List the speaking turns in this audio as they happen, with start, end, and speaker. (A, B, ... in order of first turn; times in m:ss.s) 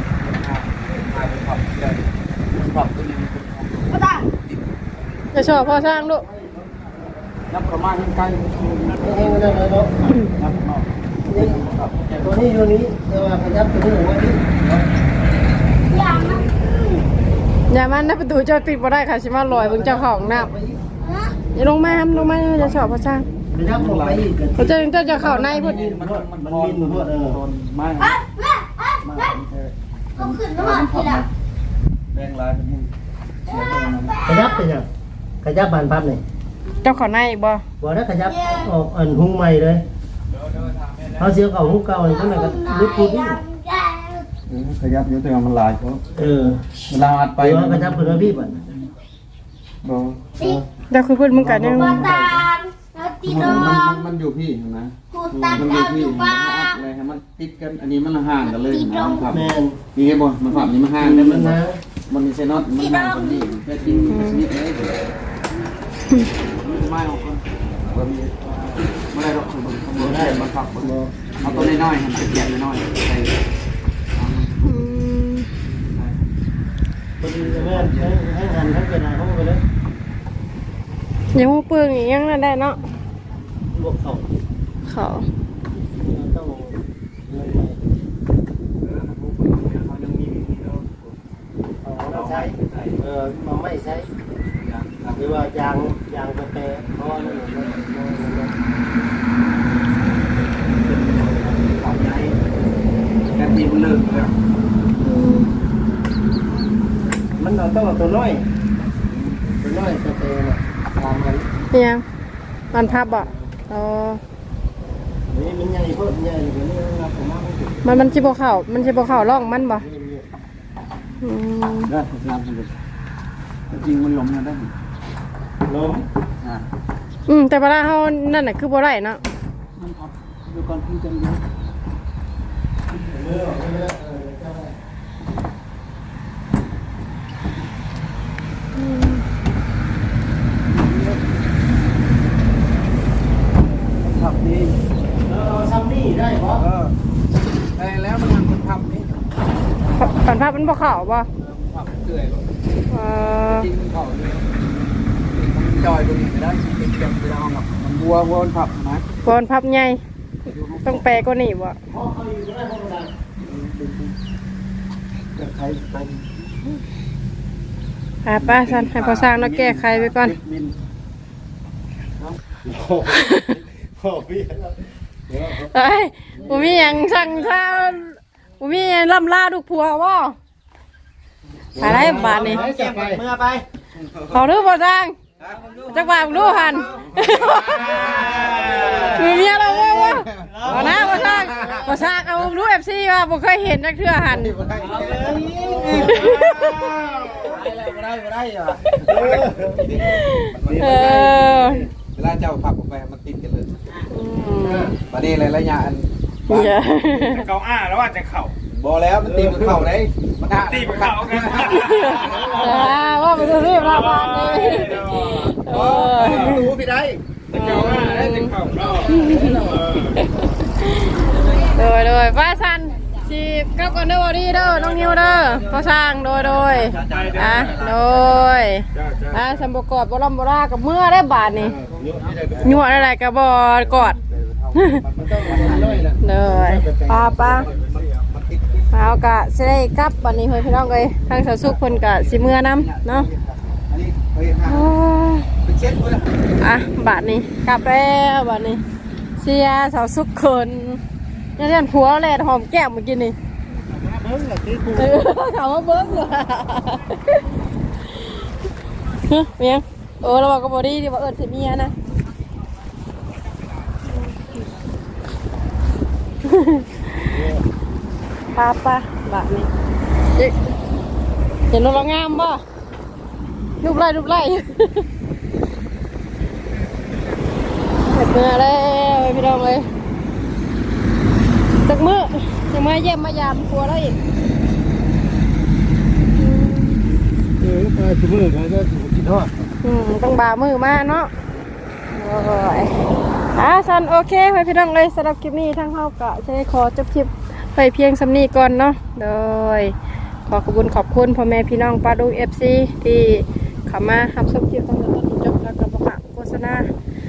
0:00.2-0:04.7 A
0:03.9-0:04.3 B
0:05.3-0:06.2 C
0:05.6-0:07.2 D
0:07.5-0:12.4 A
0:09.0-0:09.9 D
0:11.2-0:14.8 D
0:15.9-0:16.5 B
0:16.5-0:17.0 D
0:17.7-0:20.5 C
0:19.5-0:20.8 D
0:21.0-0:21.5 B
0:21.5-0:23.2 C
0:21.8-0:22.9 A
0:23.5-0:27.4 D
0:23.6-0:28.2 A
0:24.6-0:25.8 C
0:28.0-0:29.4 B
0:29.0-0:31.3 A
0:30.1-0:31.3 B
0:32.1-0:32.9 A
0:33.4-0:34.2 A
0:33.4-0:34.7 B
0:34.2-0:34.8 D
0:35.4-0:36.2 D
0:36.8-0:37.6 C
0:37.8-0:39.8 D
0:38.2-0:38.7 B
0:40.4-0:41.2 E
0:40.5-0:41.2 A
0:41.2-0:43.4 D
0:41.9-0:44.3 B
0:44.5-0:46.0 A
0:46.1-0:46.6 D
0:46.9-0:48.6 A
0:47.4-0:48.6 D
0:49.8-0:50.2 A
0:50.4-0:50.6 B
0:50.9-0:52.0 C
0:51.4-0:52.4 D
0:51.4-0:52.3 A
0:51.6-0:54.1 B
0:53.2-1:05.0 A
0:55.1-0:56.8 B
0:58.4-0:59.4 B
0:59.3-0:59.8 D
1:01.0-1:01.8 D
1:02.6-1:03.6 B
1:03.8-1:04.1 D
1:04.1-1:04.4 C
1:06.6-1:13.4 A
1:10.0-1:11.9 D
1:14.1-1:14.9 A
1:14.6-1:15.5 C
1:15.7-1:16.2 A
1:17.2-1:19.6 D
1:17.3-1:18.1 A
1:21.3-1:22.8 C
1:23.7-1:24.3 D
1:24.8-1:25.2 C
1:25.7-1:26.8 D
1:27.3-1:27.8 D
1:28.8-1:31.2 A
1:31.8-1:34.1 D
1:32.0-1:33.0 A
1:34.5-1:35.4 A
1:35.1-1:38.5 D
1:37.0-1:37.9 A
1:40.7-1:42.4 A
1:43.3-1:44.3 A
1:45.0-1:45.5 C
1:47.4-1:48.4 D
1:49.6-1:51.4 D
1:51.7-1:52.0 C
1:52.7-1:54.2 C
1:55.3-2:00.2 D
1:57.8-1:59.8 C
2:01.2-2:01.9 C
2:01.9-2:02.7 A
2:03.7-2:04.7 A
2:05.6-2:06.0 D
2:07.3-2:09.2 C
2:09.8-2:11.4 A
2:12.9-2:14.7 D
2:18.8-2:19.2 C
2:20.7-2:21.2 A
2:23.9-2:24.8 A
2:25.2-2:26.6 D
2:26.6-2:26.9 A
2:27.8-2:29.2 A
2:30.0-2:30.4 A
2:30.0-2:31.3 C
2:31.3-2:32.4 A
2:32.9-2:33.7 C
2:33.6-2:34.7 A
2:35.3-2:39.0 A
2:39.2-2:40.0 C
2:40.4-2:41.2 A
2:40.8-2:41.7 C
2:41.9-2:43.1 D
2:43.4-2:44.1 A
2:45.4-2:46.2 A
2:48.2-2:50.3 C
2:48.3-2:50.7 A
2:52.6-2:54.8 D
2:53.1-2:53.5 C
2:55.3-2:55.7 D
2:55.7-3:00.4 C
2:56.4-2:56.9 D
3:01.8-3:03.2 D
3:01.8-3:02.6 C
3:01.8-3:03.6 F
3:03.9-3:04.5 A
3:04.3-3:05.2 C
3:05.4-3:11.9 A
3:05.4-3:07.1 F
3:05.9-3:07.8 C
3:07.7-3:09.2 F
3:09.2-3:14.6 C
3:10.4-3:11.7 F
3:10.6-3:11.9 D
3:14.2-3:23.8 A
3:14.7-3:16.4 F
3:15.1-3:16.5 D
3:16.2-3:16.9 C
3:16.5-3:16.8 E
3:17.0-3:17.3 D
3:17.4-3:17.9 F
3:19.0-3:21.9 D
3:20.0-3:21.8 C
3:24.1-3:24.9 C
3:24.6-3:25.0 D
3:25.0-3:26.7 A
3:26.5-3:27.5 C
3:27.1-3:28.5 E
3:28.7-3:32.9 A
3:29.2-3:29.9 D
3:30.6-3:32.5 E
3:31.7-3:36.6 C
3:32.2-3:33.1 D
3:33.6-3:36.7 E
3:35.6-3:37.8 A
3:37.5-3:40.3 E
3:37.5-3:51.7 C
3:38.4-3:40.0 A
3:41.3-3:41.8 B
3:44.5-3:48.7 A
3:46.3-3:47.8 E
3:48.9-3:49.7 E
3:51.5-3:52.6 D
3:51.9-3:52.9 A
3:52.6-3:54.2 C
3:53.8-3:58.8 A
3:54.8-3:55.0 C
3:55.2-3:57.3 D
3:56.2-3:57.6 C
3:57.5-3:58.2 E
3:58.9-4:03.3 C
4:01.1-4:04.9 A
4:04.6-4:05.4 C
4:05.6-4:06.3 A
4:06.6-4:08.8 C
4:09.4-4:11.0 C
4:11.6-4:13.3 C
4:13.9-4:15.2 D
4:14.9-4:17.4 C
4:19.3-4:21.9 C
4:24.1-4:24.6 C
4:26.4-4:27.2 C
4:27.3-4:27.6 D
4:28.5-4:29.7 C
4:30.4-4:30.7 C
4:31.7-4:32.6 C
4:33.8-4:35.0 C
4:38.0-4:39.9 C
4:41.8-4:44.2 C
4:46.4-4:47.0 C
4:47.6-4:49.5 D
4:49.8-4:51.3 C
4:52.1-4:52.9 C
4:53.5-4:59.9 C
5:00.5-5:06.9 C